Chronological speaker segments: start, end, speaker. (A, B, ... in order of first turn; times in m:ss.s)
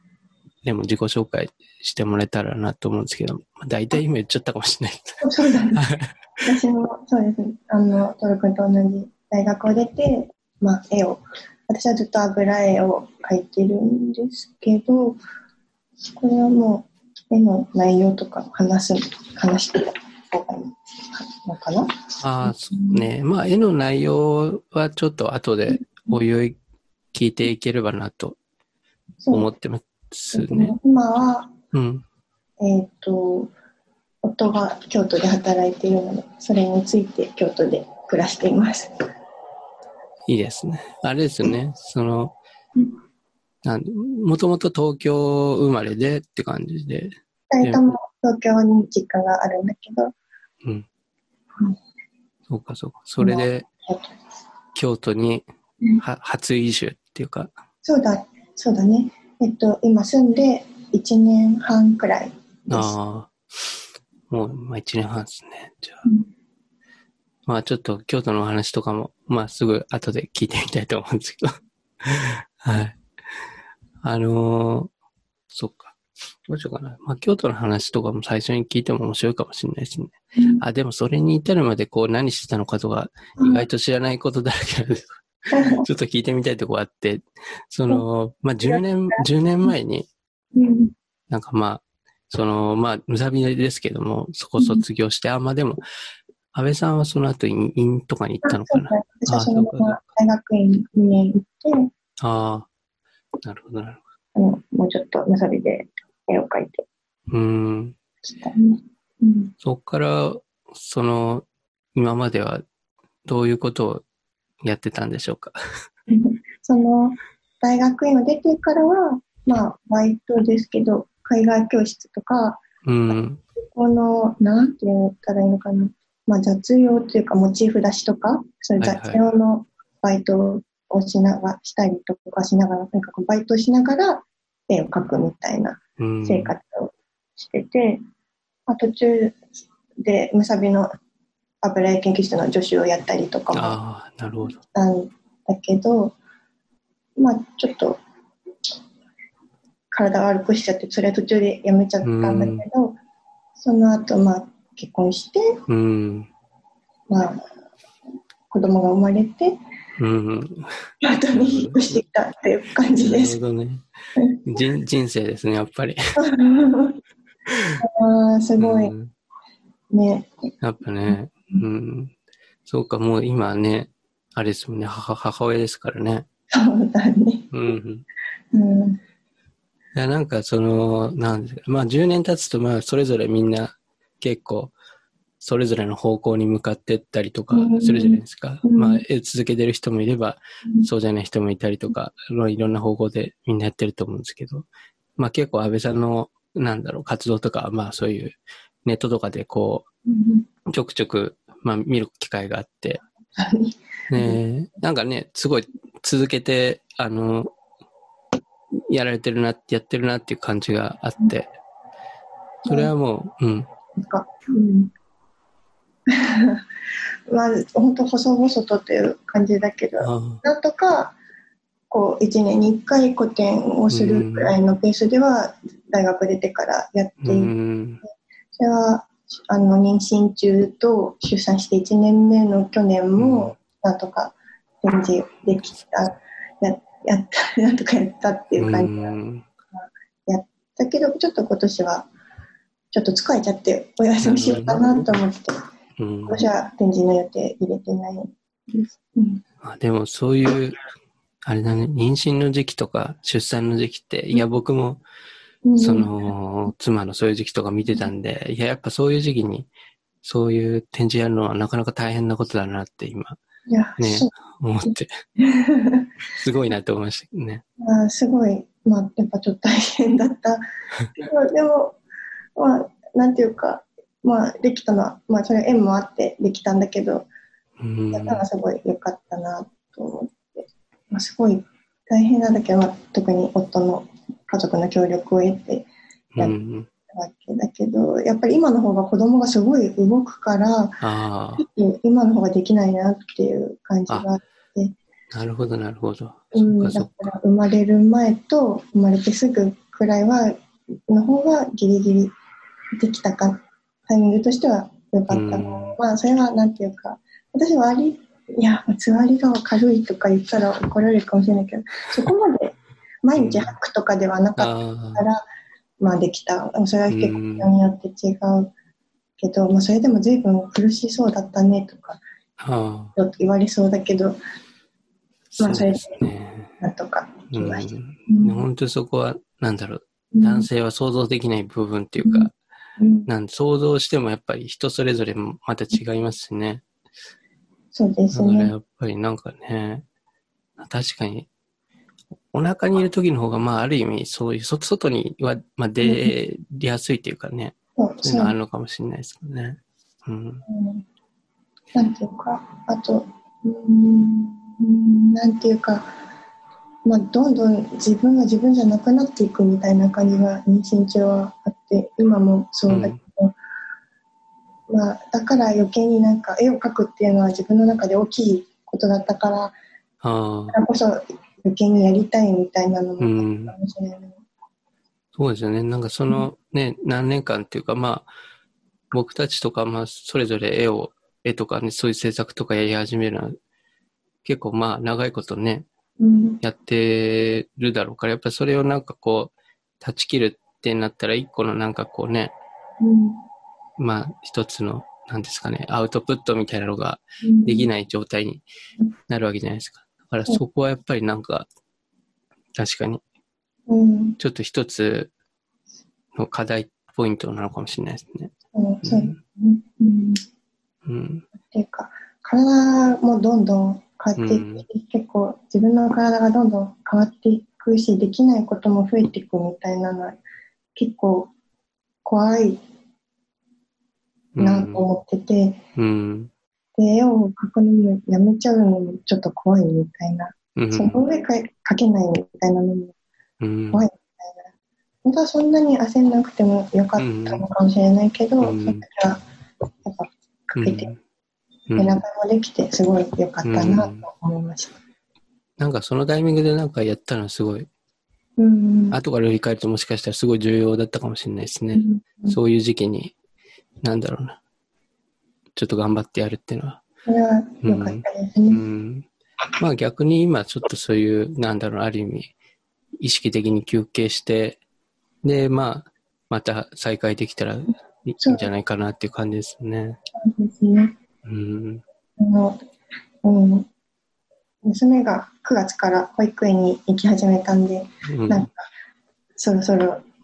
0:00.6-0:05.2 A
0:05.2-0:05.8 B
0:05.8-0:06.2 A
0:06.4-0:15.2 B
0:16.0-0:23.1 B
0:22.2-0:26.6 A
0:25.7-0:26.2 B
0:27.1-0:28.4 A
0:29.2-0:29.5 B
0:29.3-0:30.8 A
0:30.3-0:31.5 B
0:31.7-0:32.0 A
0:32.6-0:33.5 B
0:34.2-0:38.9 B
0:40.3-0:42.4 A
0:43.6-0:48.0 A
0:47.5-0:50.1 B
0:52.5-0:53.7 A
0:53.2-0:54.2 B
0:54.8-0:55.4 A
0:56.0-0:57.5 A
0:57.8-1:03.0 B
1:02.7-1:03.8 A
1:04.3-1:06.0 A
1:07.5-1:13.0 A
1:14.0-1:14.9 A
1:15.5-1:25.2 A
1:20.4-1:20.6 B
1:23.4-1:23.7 B
1:25.5-1:25.9 B
1:25.8-1:30.1 A
1:28.6-1:29.7 B
1:30.6-1:30.9 B
1:31.3-1:35.8 A
1:34.6-1:34.8 B
1:36.5-1:40.0 A
1:38.4-1:41.9 B
1:42.2-1:42.7 A
1:43.4-1:44.0 A
1:44.4-1:46.9 B
1:47.3-1:48.0 A
1:48.4-1:49.5 B
1:49.6-1:52.6 A
1:53.2-1:54.0 A
1:54.6-1:55.6 A
1:56.1-2:02.6 B
2:02.8-2:03.4 A
2:03.6-2:18.0 B
2:08.8-2:09.2 A
2:16.0-2:16.5 A
2:18.7-2:19.4 B
2:20.0-2:20.9 B
2:21.6-2:23.8 B
2:23.5-2:24.6 A
2:24.7-2:26.2 B
2:27.2-2:28.0 B
2:29.9-2:33.0 B
2:32.0-2:32.6 A
2:33.6-2:35.6 B
2:35.7-2:36.3 A
2:37.1-2:37.4 B
2:38.5-2:39.6 B
2:40.0-2:40.8 A
2:41.0-2:43.4 B
2:41.3-2:41.9 A
2:43.0-2:43.8 A
2:44.2-2:44.4 B
2:44.5-2:46.0 A
2:46.2-2:47.0 B
2:47.5-2:47.8 A
2:47.8-2:48.9 B
2:48.6-2:49.1 A
2:49.9-2:50.5 B
2:50.6-2:52.1 A
2:51.1-2:51.6 B
2:52.7-2:56.3 A
2:56.5-2:57.5 B
2:57.5-2:58.0 A
2:58.5-2:59.0 B
2:59.9-3:04.7 A
3:05.4-3:19.8 A
3:07.5-3:09.0 B
3:20.1-3:20.5 B
3:20.7-3:23.0 A
3:23.4-3:24.4 B
3:24.1-3:27.5 A
3:28.9-3:31.5 A
3:32.6-3:32.9 B
3:32.7-3:33.7 A
3:33.9-3:34.9 B
3:36.1-3:36.6 B
3:37.3-3:41.2 B
3:40.0-3:40.4 A
3:41.9-3:47.5 B
3:43.9-3:44.5 A
3:47.2-3:48.0 A
3:48.6-3:59.2 B
3:53.2-3:53.6 A
3:58.6-3:59.4 A
3:59.7-4:02.1 B
4:02.9-4:05.7 B
4:04.2-4:05.1 A
4:06.0-4:06.4 A
4:06.3-4:09.4 B
4:09.6-4:10.8 A
4:11.4-4:15.0 A
4:15.6-4:16.1 B
4:15.8-4:19.7 A
4:20.2-4:23.4 A
4:23.7-4:24.3 B
4:24.0-4:25.1 A
4:25.4-4:26.1 B
4:26.4-4:27.6 A
4:27.8-4:30.6 B
4:31.2-4:32.0 B
4:32.6-4:37.3 B
4:37.8-4:38.5 A
4:38.1-4:46.6 B
4:46.4-4:46.9 A
4:47.1-4:51.0 B
4:51.0-4:51.6 A
4:51.6-4:55.0 B
4:55.3-4:57.3 A
4:56.5-5:00.6 B
5:01.1-5:02.3 B
5:03.0-5:15.4 B
5:05.3-5:06.0 A
5:13.4-5:13.8 A
5:14.6-5:15.2 A
5:16.0-5:18.7 B
5:17.1-5:17.7 A
5:19.4-5:22.2 B
5:22.6-5:23.2 A
5:23.2-5:24.4 B
5:25.6-5:26.7 A
5:25.6-5:26.2 B
5:26.8-5:28.6 B
5:27.5-5:32.5 A
5:30.3-5:30.7 B
5:32.2-5:32.5 B
5:33.0-5:33.3 B
5:33.3-5:36.8 A
5:37.9-5:38.7 B
5:38.3-5:40.0 A
5:40.8-5:41.5 A
5:42.5-5:50.6 A
5:46.0-5:46.4 B
5:48.0-5:48.6 B
5:50.7-5:51.0 B
5:51.9-5:56.1 B
5:57.0-6:03.6 B
6:02.9-6:03.2 A
6:04.9-6:09.8 B
6:10.2-6:10.8 A
6:10.7-6:14.4 B
6:13.2-6:13.8 A
6:15.4-6:18.3 A
6:19.1-6:23.6 A
6:24.4-6:25.9 A
6:26.2-6:26.6 B
6:26.6-6:32.5 A
6:33.0-6:33.4 B
6:34.0-6:38.6 A
6:37.4-6:37.9 B
6:39.3-6:41.7 A
6:42.8-6:43.2 A
6:43.9-6:44.4 B
6:44.4-6:45.3 A
6:46.3-6:49.4 A
6:48.7-6:50.4 B
6:51.0-6:51.4 A
6:51.6-7:00.4 B
6:54.4-6:54.8 A
7:01.0-7:01.5 B
7:02.2-7:02.8 B
7:04.6-7:05.0 A
7:04.6-7:05.8 B
7:06.0-7:06.5 A
7:07.0-7:13.2 B
7:10.8-7:11.2 A
7:13.6-7:14.0 A
7:13.9-7:14.7 B
7:15.2-7:19.4 B
7:17.2-7:17.6 A
7:18.6-7:19.0 A
7:20.0-7:21.1 B
7:20.8-7:21.2 A
7:21.9-7:22.2 A
7:22.0-7:25.0 B
7:23.6-7:24.2 A
7:25.8-7:27.9 A
7:28.6-7:29.2 B
7:29.1-7:33.3 A
7:31.9-7:32.6 B
7:34.0-7:34.6 A
7:35.8-7:37.0 A
7:37.3-7:38.8 B
7:37.8-7:39.3 A
7:39.8-7:42.5 A
7:43.2-7:44.8 A
7:45.4-7:50.2 A
7:48.4-7:48.7 B
7:50.4-7:51.2 B
7:51.4-7:52.0 A
7:52.4-7:52.8 B
7:53.4-7:53.9 B
7:54.8-7:58.8 B
7:58.3-7:58.7 A
7:59.6-8:00.2 B